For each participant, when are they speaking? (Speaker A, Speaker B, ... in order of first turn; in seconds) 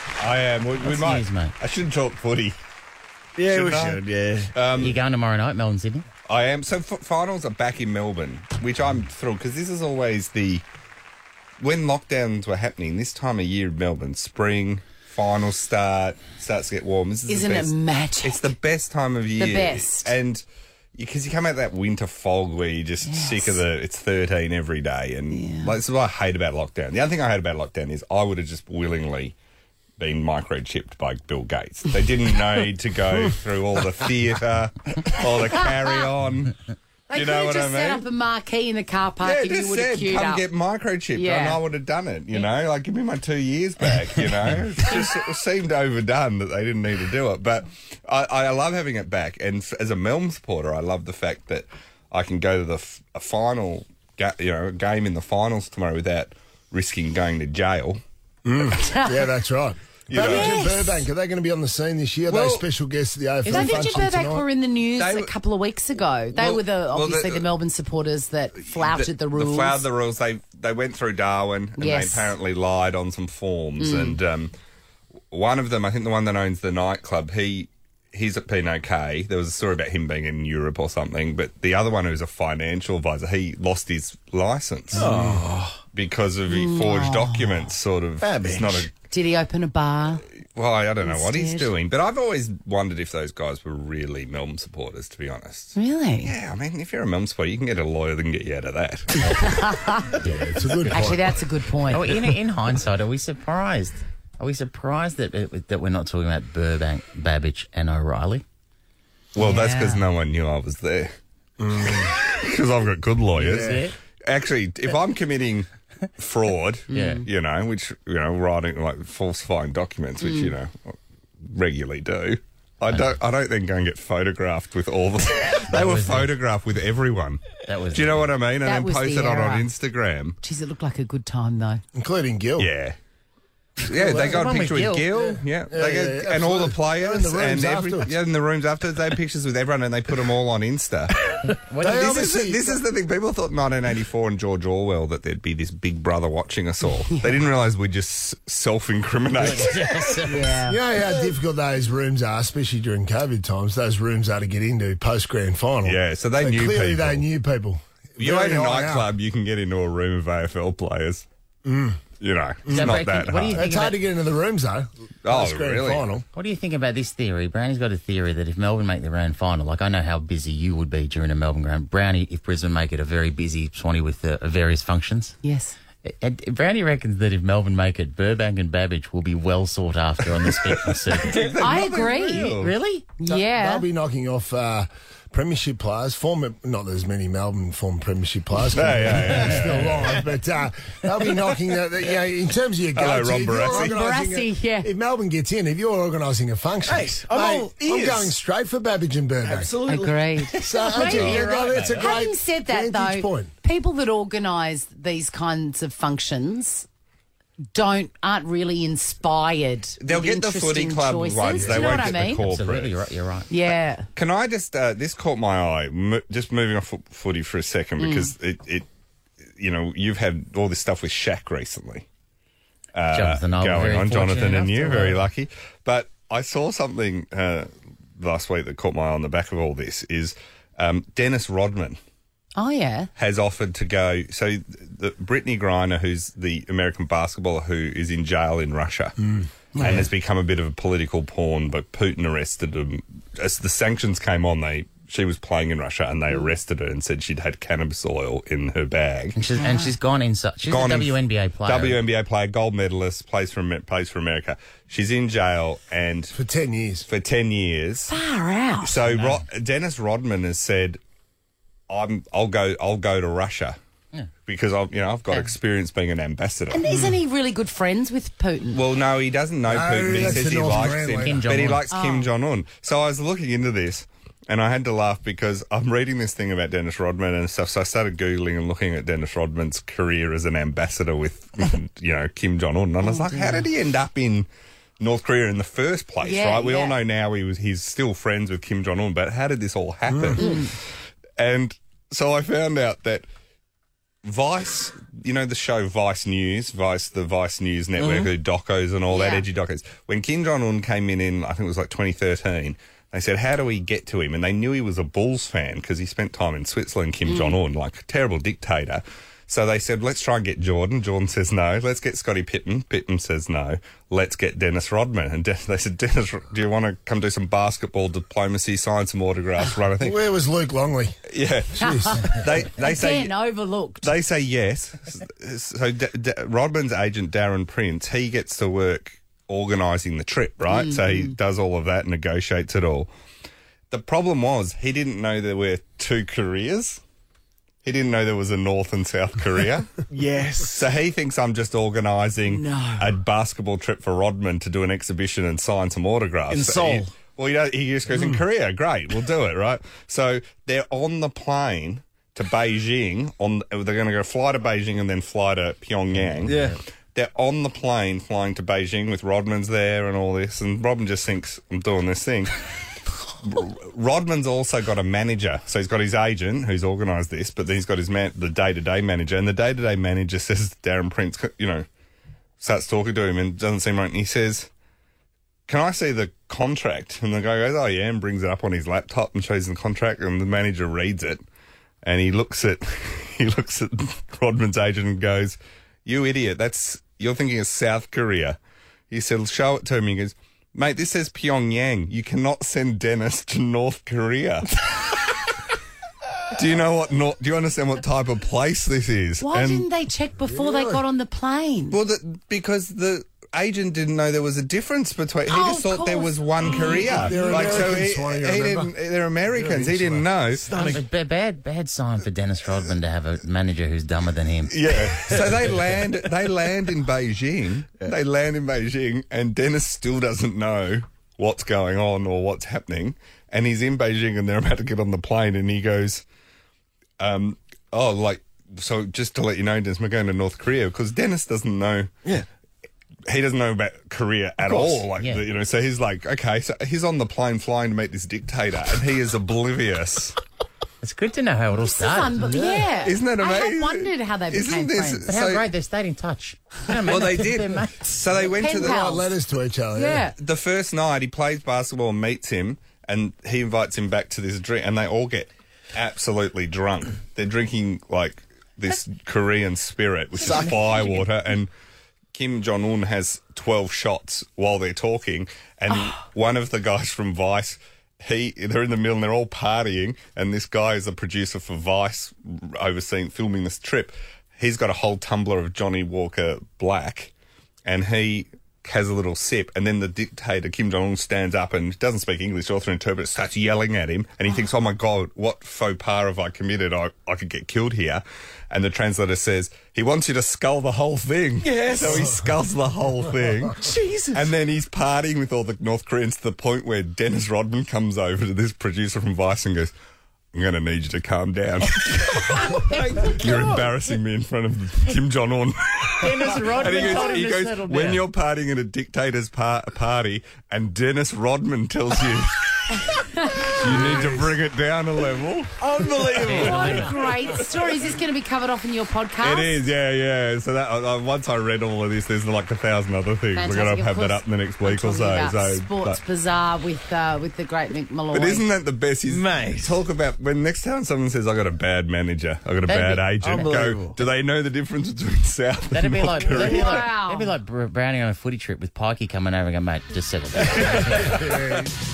Speaker A: 0.2-2.6, 3.5-5.0, 6.3-10.6, 11.6-20.4, 20.9-29.4, 30.0-36.6, 37.1-38.0, 39.2-58.0, 60.1-60.7, 62.3-62.7, 63.5-63.9, 65.0-65.3, 66.3-67.5, 68.5-74.5, 75.3-85.1, 85.9-88.9, 90.5-99.2, 109.3-111.1, 111.8-130.4, 132.6-132.9, 133.8-141.2, 141.8-150.0, 155.8-157.3, 158.2-161.2, 162.2-163.6, 165.2-166.0, 181.2-182.8, 188.7-190.2, 192.9-193.9, 210.0-213.0, 214.2-218.9, 219.6-222.1, 222.9-232.0, 233.2-239.1, 239.8-249.4, 250.7-256.3, 257.1-258.2, 258.8-261.0, 261.9-263.8, 264.4-266.9, 268.7-284.5, 285.0-290.6, 291.4-293.2, 294.2-320.2, 321.3-323.4, 324.0-333.1, 333.9-337.0, 337.8-339.9, 340.6-362.6, 363.4-371.9, 372.6-374.7, 375.7-381.4, 382.0-388.6, 389.1-395.5, 396.5-399.9, 401.9-410.7, 414.7-426.2, 427.2-432.1, 433.3-440.4, 443.0-445.7, 447.0-449.3, 450.2-461.7, 462.3-477.3, 477.9-499.9, 500.5-513.1, 513.7-515.8, 519.4-526.2, 528.3-537.0
Speaker B: 0.8-1.5, 4.8-6.0, 101.9-108.4, 113.3-114.0, 116.9-117.2, 122.8-123.2, 125.7-126.3, 127.6-128.3, 134.2-135.1, 141.4-142.3, 149.3-150.6, 162.7-164.0, 166.3-175.3, 176.0-181.5, 182.5-183.1, 200.9-201.9, 212.1-213.5, 223.1-225.2, 249.3-252.0, 259.1-259.4, 271.2-271.8, 356.1-356.8, 410.7-414.8, 435.2-435.4, 441.0-442.5, 445.2-448.0, 502.5-503.5, 506.2-508.2, 516.4-517.1, 532.8-533.5, 535.9-541.4
Speaker C: 3.4-4.5, 84.9-85.8, 88.2-88.9, 196.8-198.3, 199.4-202.0, 298.0-298.3, 340.1-340.9, 346.5-347.1, 356.4-356.8, 410.5-411.0, 415.3-415.6, 434.6-435.0, 460.4-461.1, 491.6-492.3, 493.8-494.4, 503.3-503.6, 515.8-517.2, 529.2-530.0, 533.4-534.2
Speaker D: 17.3-18.5, 19.4-20.1, 23.0-23.6, 25.3-25.7, 35.4-36.0, 37.1-40.5, 41.1-41.6, 58.8-59.3, 60.2-61.0, 63.4-69.9, 71.8-72.3, 73.8-74.2, 86.5-87.7, 89.1-90.2, 91.0-91.7, 95.8-96.3, 99.3-100.2, 100.9-102.1, 109.4-110.1, 116.9-117.2, 120.2-120.5, 128.6-129.7, 130.4-131.8, 150.3-151.3, 175.4-175.7, 181.6-182.5, 183.2-183.9, 193.7-194.9, 199.9-206.8, 207.7-212.4, 213.5-214.1, 218.0-218.3, 232.6-233.1, 239.8-240.1, 249.6-249.9, 258.1-258.9, 266.7-268.8, 271.9-272.3, 283.0-283.7, 286.2-287.0, 290.4-290.7, 299.1-299.5, 307.2-307.6, 321.8-324.1, 330.7-331.4, 342.5-343.1, 399.4-402.0, 405.4-407.3, 441.9-445.2, 448.5-449.3, 449.9-450.4, 465.9-466.2, 513.2-513.8, 516.5-519.8, 523.5-528.7, 536.4-537.5
Speaker E: 58.4-64.5, 85.0-85.4, 100.2-101.3, 111.6-112.1, 113.4-113.8, 131.9-132.7, 133.9-134.5, 135.1-138.1, 141.8-142.8, 150.7-159.1, 161.6-162.0, 162.7-163.0, 163.5-166.2, 183.2-199.7, 200.6-203.5, 211.5-211.9, 256.3-257.1, 269.7-271.6, 290.1-290.4, 320.0-321.2, 321.8-322.1, 400.4-401.0, 407.1-410.4, 442.4-442.9, 448.8-450.3, 541.3-541.9